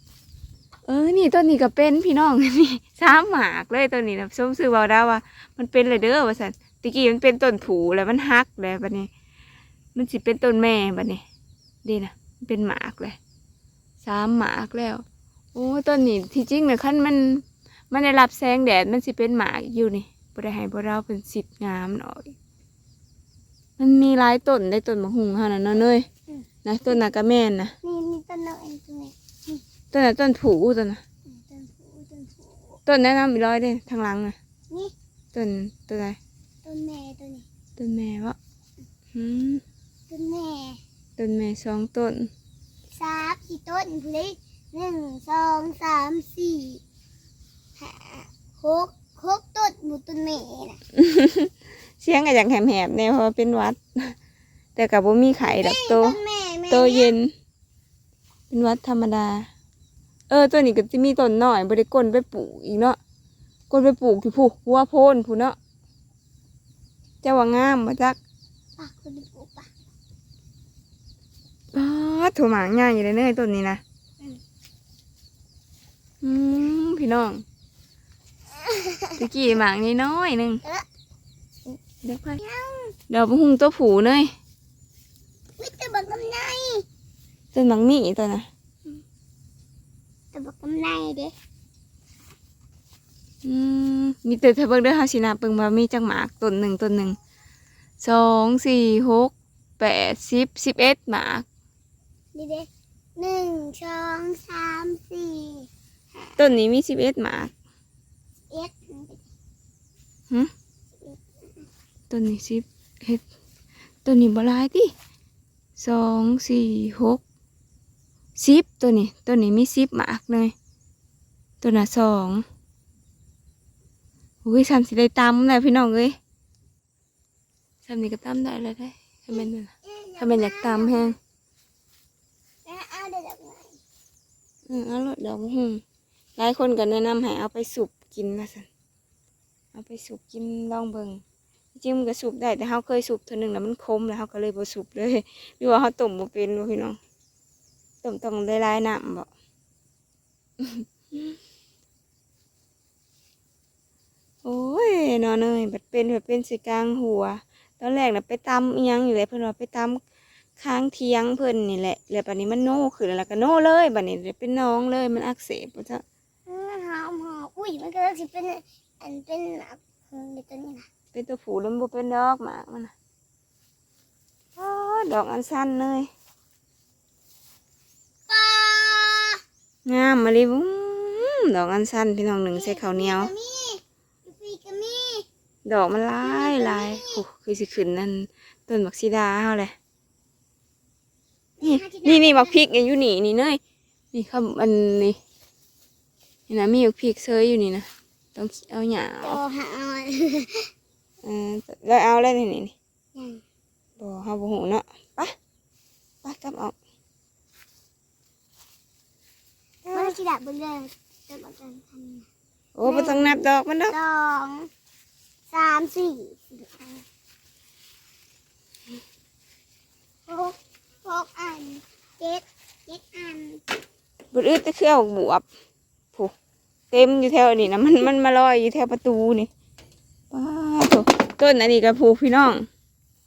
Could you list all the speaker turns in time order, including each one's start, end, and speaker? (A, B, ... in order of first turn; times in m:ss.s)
0:00.9-0:09.1 A
0:09.9-0:11.2 A
0:11.8-0:13.2 A
0:14.0-0:22.3 A
0:23.8-0:26.1 A
0:26.6-0:27.7 A
0:27.8-0:29.6 B
0:29.9-0:31.0 A
0:31.2-0:32.8 B
0:32.8-0:34.4 A
0:35.3-0:36.2 A
0:36.6-0:37.4 B
0:37.8-0:38.4 A
0:39.1-0:39.6 A
0:40.1-0:40.8 B
0:41.2-0:42.3 A
0:42.9-0:46.8 B
0:47.8-0:50.8 B
0:50.9-0:54.2 A
0:54.8-0:57.3 A
0:55.4-0:57.1 B
0:58.5-0:59.5 A
1:00.3-1:03.0 A
1:03.7-1:05.6 A
1:07.2-1:08.2 A
1:08.8-1:09.7 B
1:11.7-1:13.8 A
1:16.2-1:17.4 A
1:18.5-1:19.2 B
1:19.2-1:20.6 A
1:21.7-1:22.4 A
1:22.4-1:22.9 B
1:23.1-1:24.3 A
1:25.6-1:26.8 B
1:27.5-1:28.5 A
1:30.3-1:31.3 B
1:33.4-1:37.2 A
1:38.0-1:41.4 A
1:42.3-1:46.4 B
1:46.4-1:47.5 A
1:48.5-1:49.2 B
1:51.0-1:51.6 B
1:52.1-1:53.2 A
1:54.0-1:54.9 A
1:55.8-1:57.2 A
1:58.4-2:00.5 A
2:01.6-2:02.4 A
2:04.4-2:06.2 A
2:07.8-2:11.2 A
2:09.3-2:11.1 B
2:12.6-2:13.8 B
2:14.7-2:15.8 A
2:16.4-2:18.7 A
2:19.7-2:21.2 A
2:21.7-2:27.0 A
2:28.0-2:29.3 A
2:30.6-2:31.4 A
2:34.4-2:40.0 A
2:40.6-2:46.0 A
2:46.5-2:50.8 B
2:51.1-2:52.9 A
2:54.6-2:56.1 A
2:58.3-2:59.4 B
2:59.8-3:03.3 A
3:02.5-3:05.2 B
3:05.6-3:09.7 A
3:06.2-3:07.2 B
3:11.6-3:12.6 B
3:11.6-3:13.6 A
3:14.1-3:15.2 A
3:16.5-3:19.4 A
3:19.2-3:20.7 B
3:21.2-3:22.7 A
3:23.1-3:23.4 B
3:24.0-3:25.3 A
3:26.2-3:26.7 A
3:29.9-3:32.3 B
3:32.7-3:33.9 A
3:32.8-3:34.7 B
3:35.5-3:37.0 B
3:40.3-3:43.6 B
3:44.3-3:45.4 A
3:46.9-3:49.5 A
3:50.3-3:52.6 A